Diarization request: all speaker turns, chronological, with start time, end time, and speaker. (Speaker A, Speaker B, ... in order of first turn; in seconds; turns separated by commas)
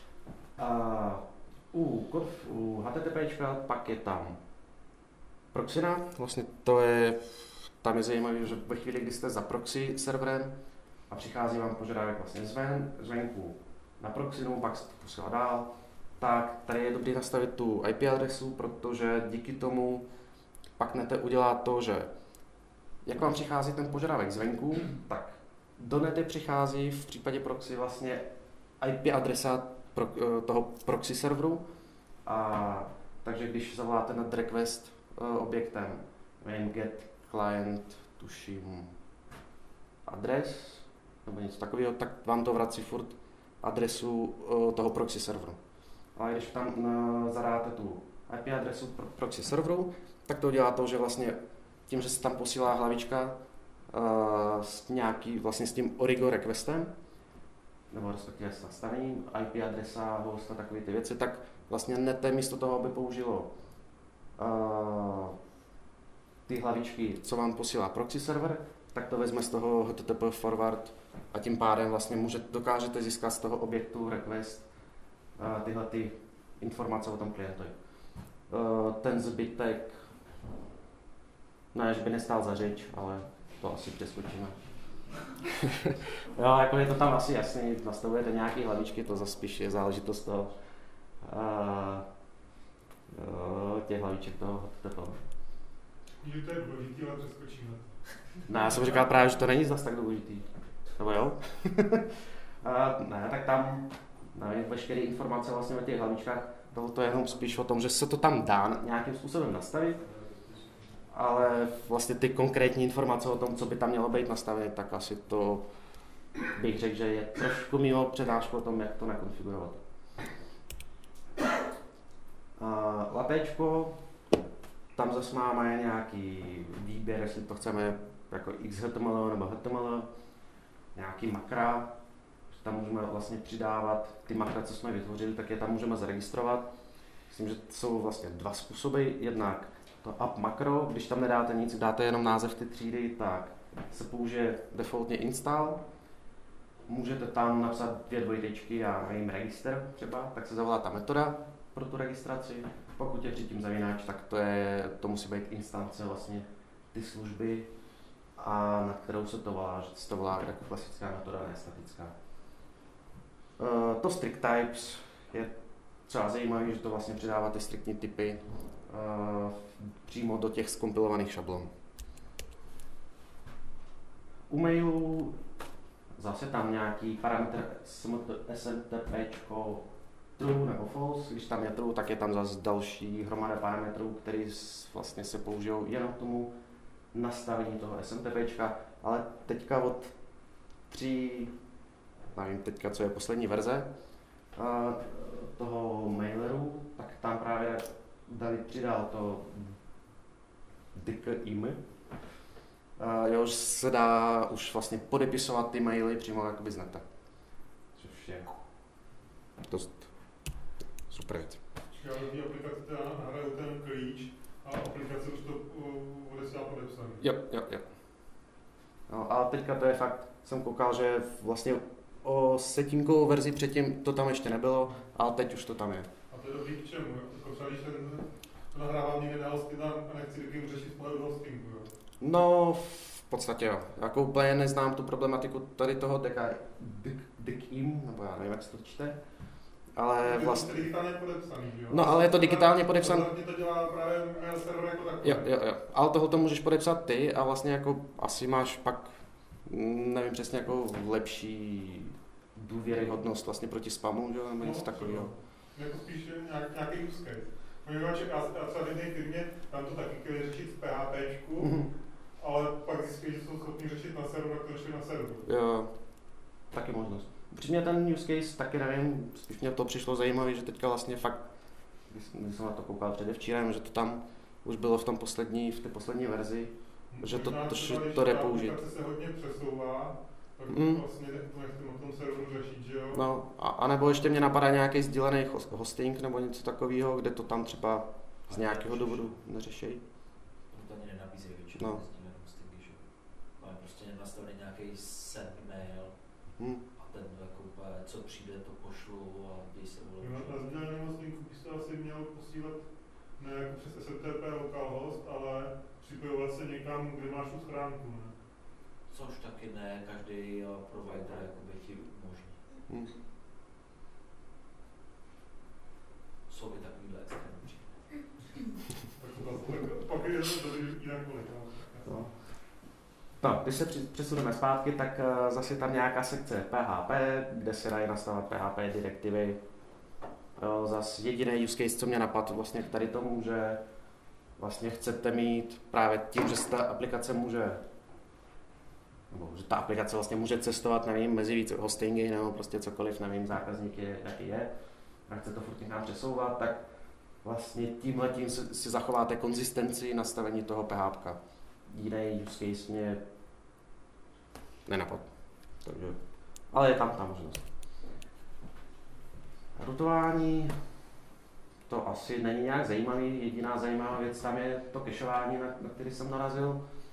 Speaker A: 0.6-4.4, Speaker A: 5.5-10.5, Speaker A: 11.1-20.1, Speaker A: 20.8-22.1, Speaker A: 23.0-28.2, Speaker A: 28.8-31.6, Speaker A: 32.2-38.9, Speaker A: 40.0-45.6, Speaker A: 46.1-51.4, Speaker A: 51.9-53.4, Speaker A: 53.9-56.9, Speaker A: 57.9-63.5, Speaker A: 64.4-65.3, Speaker A: 66.5-74.7, Speaker A: 75.4-77.7, Speaker A: 78.5-80.0, Speaker A: 81.7-84.5, Speaker A: 85.5-90.5, Speaker A: 91.2-92.0, Speaker A: 93.1-95.2, Speaker B: 96.2-97.9, Speaker A: 98.5-110.0, Speaker B: 98.5-99.2, Speaker A: 111.1-115.7, Speaker A: 116.5-119.8, Speaker A: 122.6-124.0, Speaker A: 125.0-130.1, Speaker A: 130.9-131.9, Speaker A: 132.5-136.7, Speaker A: 137.3-145.8, Speaker A: 146.9-157.7, Speaker A: 158.4-162.1, Speaker A: 163.6-165.5, Speaker A: 166.1-171.7, Speaker A: 174.5-175.4, Speaker A: 176.2-179.8, Speaker A: 180.4-186.5, Speaker A: 187.1-190.1, Speaker A: 190.9-191.5, Speaker A: 192.3-193.9, Speaker A: 194.6-199.8, Speaker A: 200.9-201.8, Speaker A: 203.0-207.0, Speaker A: 207.9-208.5, Speaker A: 209.7-210.1, Speaker A: 211.1-211.6, Speaker B: 211.9-217.2, Speaker A: 217.2-217.8, Speaker A: 219.1-226.1, Speaker B: 226.3-231.9, Speaker A: 232.2-239.2, Speaker A: 239.9-240.7, Speaker B: 240.2-245.5, Speaker A: 241.9-243.3, Speaker A: 245.2-255.3, Speaker B: 254.6-261.7, Speaker A: 261.6-261.9, Speaker B: 262.4-265.4, Speaker A: 265.4-265.9, Speaker A: 266.7-271.5, Speaker A: 272.1-278.7, Speaker B: 277.1-283.2, Speaker A: 280.7-281.0, Speaker A: 283.1-290.0, Speaker C: 288.5-289.4, Speaker C: 290.7-293.0, Speaker C: 293.6-296.1, Speaker A: 296.6-296.8, Speaker C: 296.9-300.6, Speaker B: 300.2-302.8, Speaker B: 303.4-308.3, Speaker C: 309.1-312.6, Speaker C: 316.5-318.2, Speaker B: 319.2-322.3, Speaker A: 323.4-329.6, Speaker A: 330.6-333.8, Speaker A: 334.6-337.8, Speaker A: 339.3-344.7, Speaker A: 345.3-346.8, Speaker A: 347.4-353.2, Speaker A: 354.9-355.3, Speaker A: 355.8-356.2, Speaker A: 356.7-357.6, Speaker A: 359.8-360.7, Speaker A: 361.9-366.8